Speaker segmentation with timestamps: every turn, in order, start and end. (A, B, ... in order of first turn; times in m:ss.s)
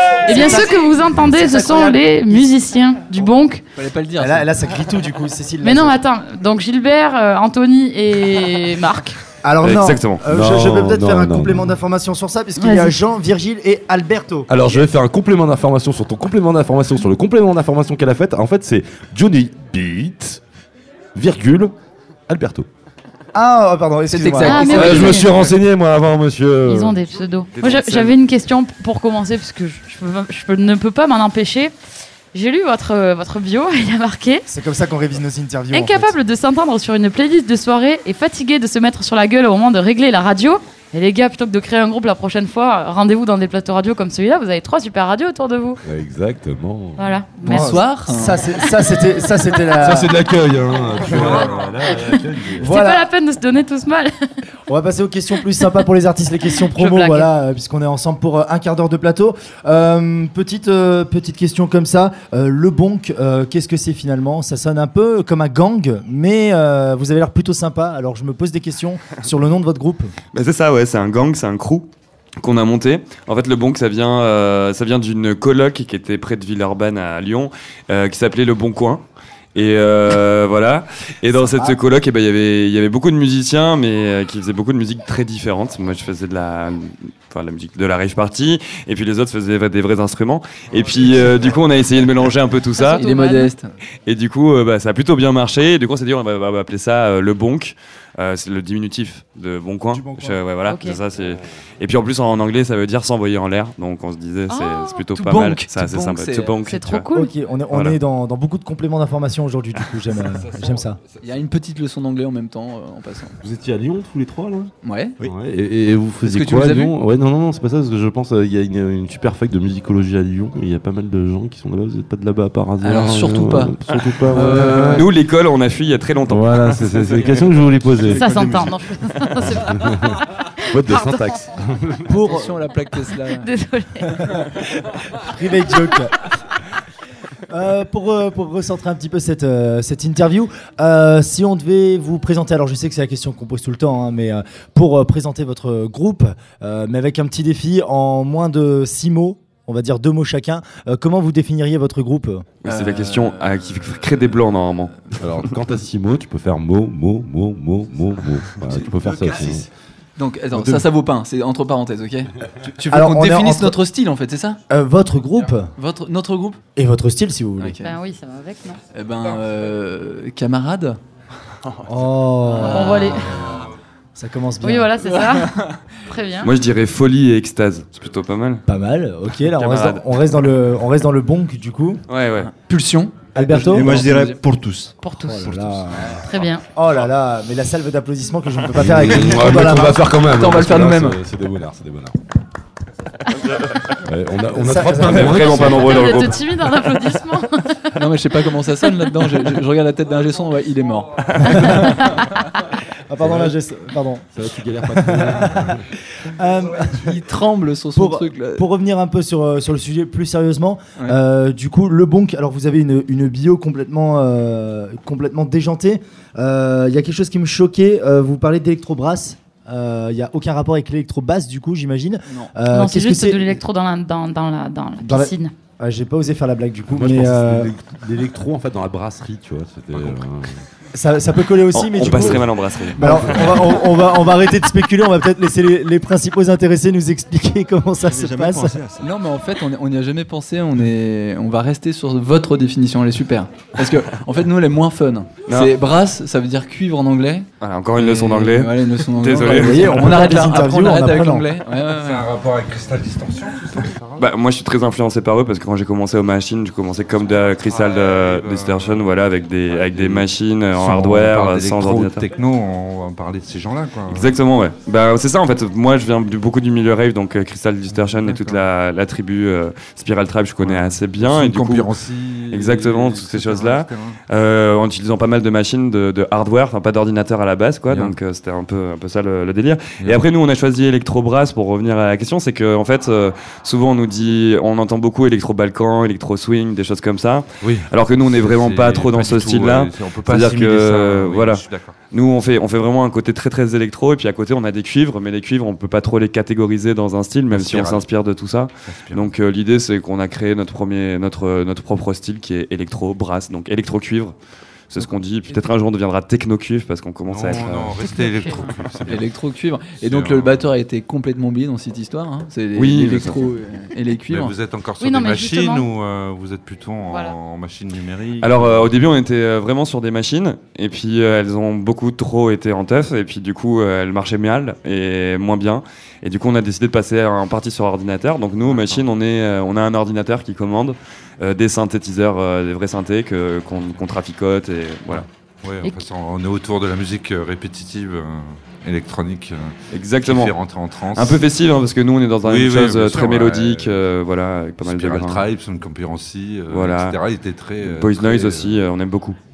0:00.2-0:02.5 A
0:00.2-0:03.6 B
0:03.7-0:04.6 C
0:04.2-0:06.0 A
0:05.6-0:09.2 B
0:09.4-0:14.5 A
0:09.6-0:10.2 D
0:10.3-0:11.7 E
0:12.6-0:13.0 B
0:14.5-0:20.4 E
0:21.2-0:21.7 E
0:22.3-0:22.7 E
0:23.3-0:25.1 A
0:24.1-0:25.2 C
0:24.4-0:25.4 B
0:24.7-0:27.0 E
0:26.6-0:31.7 B
0:27.6-0:28.2 F
0:32.3-0:34.5 B
0:34.5-0:36.1 A
0:35.7-0:45.8 B
0:45.8-0:47.1 E
0:47.0-0:47.8 B
0:47.4-0:50.1 A
0:47.4-0:48.4 C
0:48.5-0:49.0 B
0:49.8-0:52.7 E
0:51.0-0:51.7 F
0:51.1-0:54.3 B
0:52.6-0:53.1 A
0:54.7-1:10.1 A
0:56.6-0:57.3 B
1:10.3-1:11.9 D
1:12.4-1:19.0 D
1:19.6-1:33.0 D
1:21.3-1:21.8 A
1:32.8-1:33.5 B
1:32.9-1:33.7 C
1:34.1-1:47.1 D
1:39.9-1:40.4 A
1:40.7-1:41.0 B
1:44.5-1:45.0 B
1:45.0-1:46.7 C
1:46.6-1:47.3 B
1:47.1-1:51.0 A
1:47.7-1:48.0 D
1:51.2-1:53.4 C
1:53.4-2:05.1 E
1:54.8-1:55.2 C
1:56.2-1:56.9 C
2:02.8-2:05.0 C
2:04.9-2:07.0 D
2:06.2-2:08.7 E
2:08.0-2:08.6 C
2:08.1-2:11.4 B
2:10.7-2:12.2 E
2:12.1-2:12.6 A
2:12.2-2:13.5 C
2:13.3-2:14.4 B
2:15.1-2:16.2 A
2:17.5-2:32.5 A
2:32.6-2:35.5 D
2:32.6-2:34.5 C
2:35.2-2:39.7 E
2:40.2-2:44.6 C
2:42.9-2:43.8 A
2:44.7-2:45.7 A
2:45.8-2:46.6 C
2:46.8-2:47.8 A
2:47.6-2:48.0 C
2:47.8-2:48.8 B
2:48.9-2:51.0 C
2:51.9-2:53.1 A
2:52.5-2:53.7 C
2:52.6-2:53.3 B
2:54.2-2:54.9 A
2:54.6-2:56.5 B
2:55.0-2:55.9 C
2:56.4-2:58.6 D
2:58.7-3:02.0 A
2:59.4-3:00.0 D
3:02.1-3:02.5 D
3:02.5-3:04.4 C
3:03.3-3:04.0 A
3:03.6-3:04.9 G
3:05.0-3:05.5 B
3:05.2-3:06.2 A
3:06.1-3:06.6 B
3:06.7-3:10.1 A
3:08.8-3:12.1 E
3:10.3-3:11.2 C
3:13.4-3:13.8 D
3:14.0-3:16.1 E
3:14.5-3:15.8 A
3:15.0-3:16.5 D
3:15.7-3:18.0 B
3:17.9-3:22.4 C
3:21.2-3:22.1 D
3:21.4-3:22.0 A
3:21.8-3:22.3 B
3:23.1-3:24.2 A
3:23.2-3:23.5 E
3:24.3-3:25.8 E
3:24.8-3:27.1 A
3:26.9-3:28.7 C
3:27.9-3:43.6 A
3:42.3-3:42.6 C
3:42.7-3:45.5 B
3:45.0-3:47.7 A
3:46.9-3:50.6 E
3:50.9-3:58.8 A
3:51.7-3:53.8 D
3:52.1-3:52.4 E
3:53.0-3:53.4 E
3:58.0-3:59.2 G
3:59.0-4:12.3 C
4:05.5-4:05.7 D
4:07.6-4:10.2 D
4:09.6-4:11.5 A
4:11.8-4:14.3 F
4:14.2-4:22.2 D
4:17.6-4:19.1 F
4:19.7-4:24.3 F
4:24.1-4:31.9 D
4:27.9-4:28.7 F
4:30.6-4:34.2 F
4:32.5-5:04.3 D
4:37.9-4:38.2 F
4:47.6-4:52.0 F
4:57.5-4:58.0 F
4:58.9-4:59.3 F
5:04.9-5:08.0 D
5:07.3-5:09.4 F
5:08.2-5:08.6 B
5:09.0-5:14.6 C
5:10.0-5:10.7 F
5:12.7-5:13.5 D
5:14.3-5:19.0 F
5:15.0-5:15.9 B
5:17.0-5:17.4 B
5:18.4-5:35.2 D
5:28.7-5:29.0 F
5:35.1-5:41.4 F
5:39.9-5:40.6 D
5:41.1-5:45.4 D
5:42.4-5:44.0 F
5:44.8-5:48.8 F
5:46.7-5:47.2 D
5:47.8-5:49.4 D